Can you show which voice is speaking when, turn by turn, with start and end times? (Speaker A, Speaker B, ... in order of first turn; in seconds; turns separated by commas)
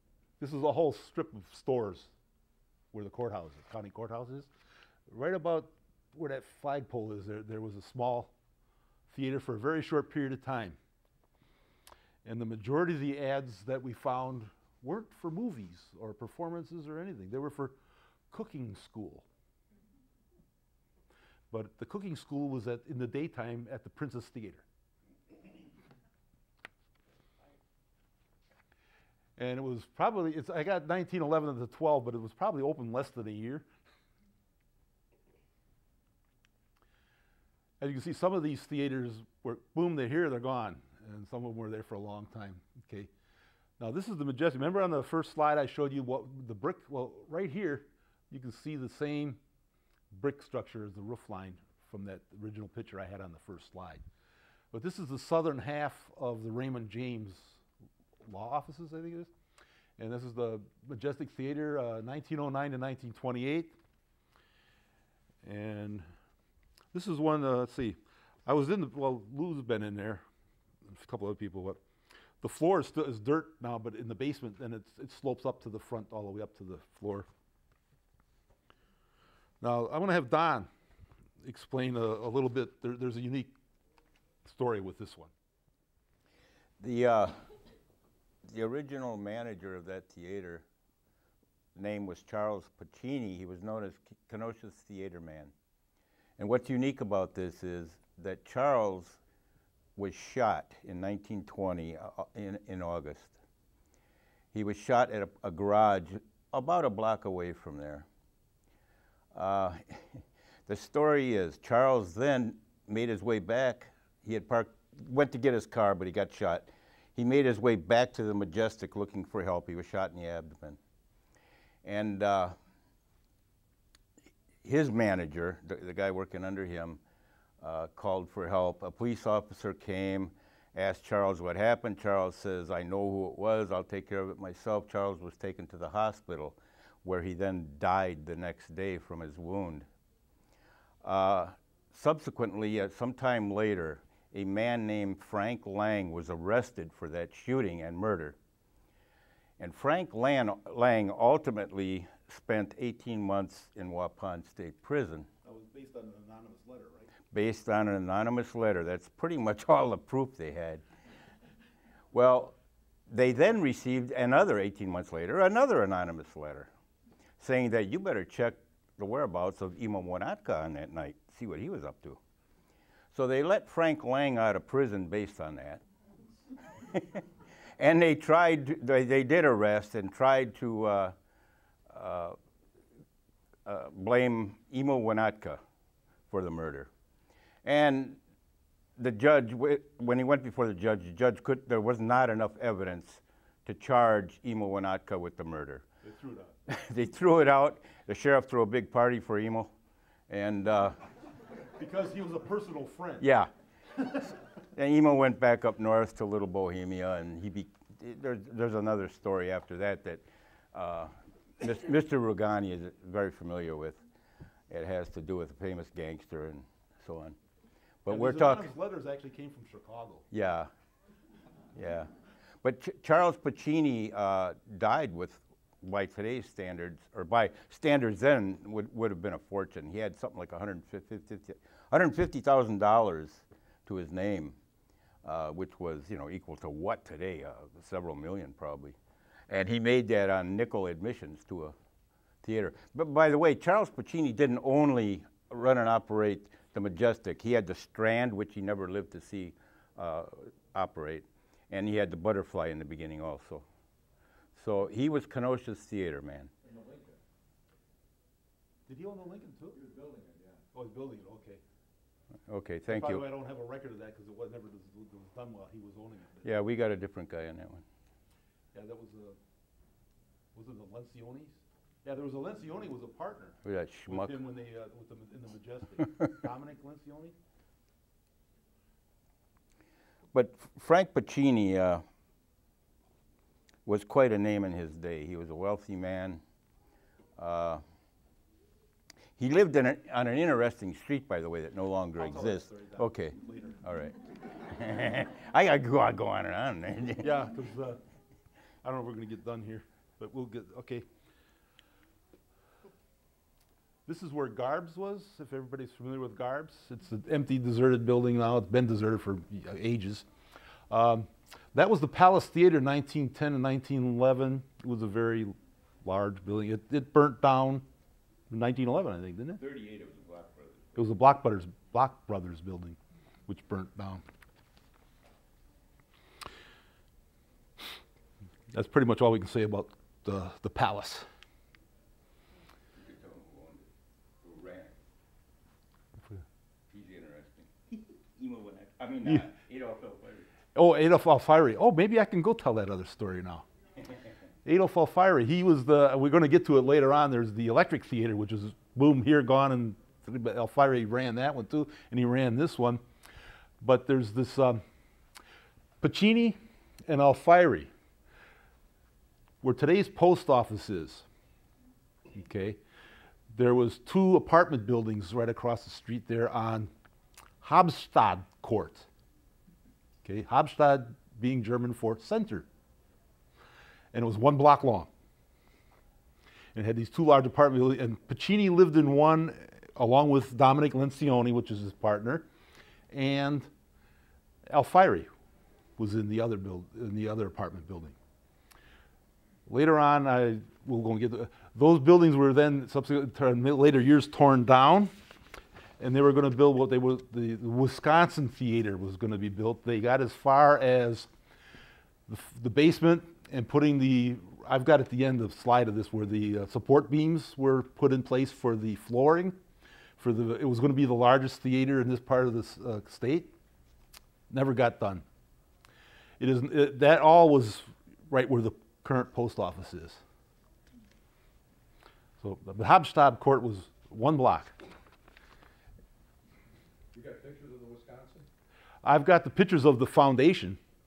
Speaker A: 0.4-2.1, Speaker A: 2.9-4.5, Speaker A: 5.1-8.3, Speaker A: 9.1-10.8, Speaker A: 12.2-17.8, Speaker A: 18.3-19.3, Speaker A: 21.5-24.6, Speaker A: 29.4-33.7, Speaker A: 37.8-43.1, Speaker A: 43.8-49.4, Speaker A: 50.1-54.0, Speaker A: 54.7-57.6, Speaker A: 58.2-59.3, Speaker A: 60.0-63.8, Speaker A: 65.4-66.1, Speaker A: 66.9-70.2, Speaker A: 70.8-71.8, Speaker A: 72.4-77.3, Speaker A: 79.6-80.7, Speaker A: 81.4-83.5, Speaker A: 84.5-85.3, Speaker B: 86.8-87.4, Speaker B: 88.5-90.7, Speaker B: 91.8-95.5, Speaker B: 96.4-99.2, Speaker B: 100.0-103.3, Speaker B: 104.5-108.1, Speaker B: 109.3-120.8, Speaker B: 121.8-122.5, Speaker B: 124.6-127.0, Speaker B: 127.6-139.9, Speaker B: 141.0-148.4, Speaker B: 149.6-155.3, Speaker A: 155.4-157.1, Speaker B: 157.3-160.8, Speaker B: 162.1-162.6, Speaker B: 163.1-166.7, Speaker B: 167.4-172.2, Speaker B: 173.1-175.8, Speaker B: 176.8-177.2, Speaker B: 177.8-181.1, Speaker B: 181.9-182.4, Speaker B: 183.7-185.6, Speaker B: 186.3-186.9, Speaker B: 187.6-188.2, Speaker B: 189.0-195.8, Speaker A: 196.0-196.5, Speaker B: 196.7-199.7, Speaker B: 200.3-201.0, Speaker A: 201.8-203.3, Speaker B: 203.2-203.5, Speaker B: 204.7-210.2, Speaker B: 210.7-214.0, Speaker B: 214.7-217.4, Speaker B: 218.0-218.7, Speaker A: 218.1-220.3, Speaker B: 220.3-220.7, Speaker B: 221.8-234.6, Speaker B: 235.2-239.0, Speaker B: 239.5-241.8, Speaker B: 242.4-253.7, Speaker B: 254.6-256.5, Speaker C: 256.6-257.2, Speaker A: 258.9-259.8, Speaker C: 259.7-260.6, Speaker A: 260.7-261.6, Speaker B: 262.5-263.2, Speaker A: 262.9-266.5, Speaker B: 266.4-267.8, Speaker A: 268.7-269.4, Speaker A: 270.5-273.6, Speaker B: 273.6-274.4, Speaker A: 274.1-277.4, Speaker B: 280.3-282.0, Speaker B: 283.9-286.4, Speaker B: 287.4-287.8, Speaker B: 289.4-297.4, Speaker A: 292.2-293.8, Speaker A: 297.2-298.0, Speaker A: 298.8-301.1, Speaker A: 304.1-310.3, Speaker A: 310.9-317.9, Speaker A: 318.5-319.6, Speaker B: 319.6-321.1, Speaker A: 321.0-324.2, Speaker A: 328.7-331.3, Speaker B: 332.9-333.9, Speaker B: 334.4-334.9, Speaker B: 336.9-340.5, Speaker A: 340.8-343.6, Speaker A: 344.6-353.0, Speaker A: 353.8-354.8, Speaker A: 356.0-357.9, Speaker A: 359.6-361.3, Speaker A: 362.3-362.8, Speaker A: 363.5-366.9, Speaker A: 367.6-369.1, Speaker A: 370.2-372.7, Speaker A: 374.1-375.1, Speaker A: 376.8-382.5, Speaker A: 383.1-383.7, Speaker A: 384.7-385.3, Speaker A: 386.0-388.1, Speaker A: 389.7-395.1, Speaker A: 396.0-401.3, Speaker A: 402.3-409.6, Speaker A: 410.2-413.5, Speaker A: 414.5-415.2, Speaker A: 416.4-420.2, Speaker A: 422.4-424.8, Speaker C: 427.1-428.5, Speaker A: 429.0-430.8